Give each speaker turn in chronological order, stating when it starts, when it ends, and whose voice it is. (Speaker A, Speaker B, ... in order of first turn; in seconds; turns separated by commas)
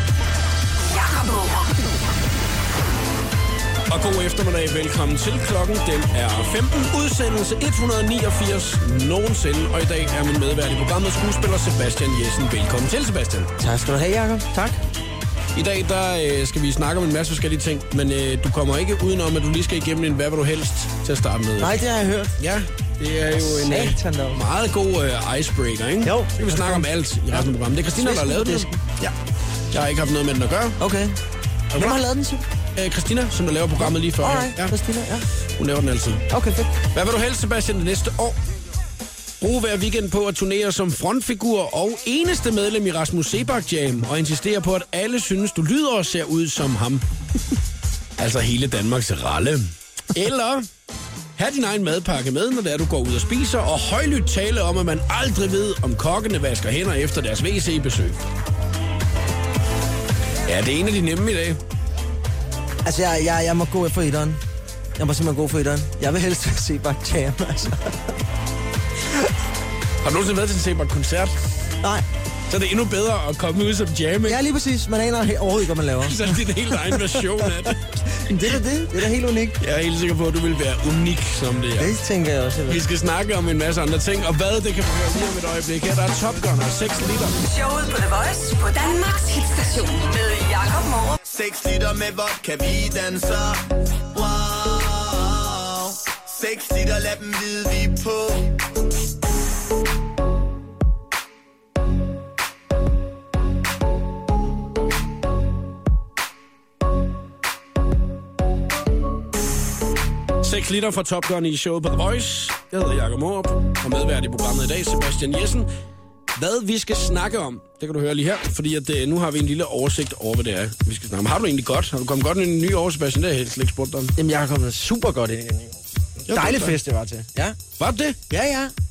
Speaker A: 0.8-1.8, Speaker B: 3.9-13.5, Speaker C: 13.6-14.8, Speaker B: 15.5-21.8, Speaker C: 21.6-22.4, Speaker B: 22.4-29.1, Speaker C: 23.3-24.4, Speaker C: 26.0-28.8, Speaker B: 29.7-30.8, Speaker C: 30.8-31.2, Speaker B: 31.7-32.0, Speaker C: 31.7-32.4, Speaker B: 32.8-34.7, Speaker C: 33.8-35.3, Speaker B: 35.6-36.2, Speaker C: 36.3-36.8, Speaker B: 36.9-38.4, Speaker B: 39.4-47.0, Speaker B: 48.2-50.7, Speaker B: 51.4-58.2, Speaker B: 60.5-61.6, Speaker C: 62.8-64.4, Speaker C: 65.0-68.2, Speaker B: 70.0-71.3, Speaker B: 72.5-74.4, Speaker C: 74.2-79.6, Speaker B: 76.0-77.8, Speaker B: 79.6-81.9, Speaker C: 81.8-82.8, Speaker B: 82.7-87.4, Speaker A: 87.4-91.2, Speaker D: 91.3-93.6, Speaker D: 94.1-98.4, Speaker B: 110.4-115.7, Speaker B: 116.3-124.2, Speaker C: 124.2-127.6, Speaker B: 126.2-126.8, Speaker B: 127.8-128.2, Speaker C: 128.3-128.7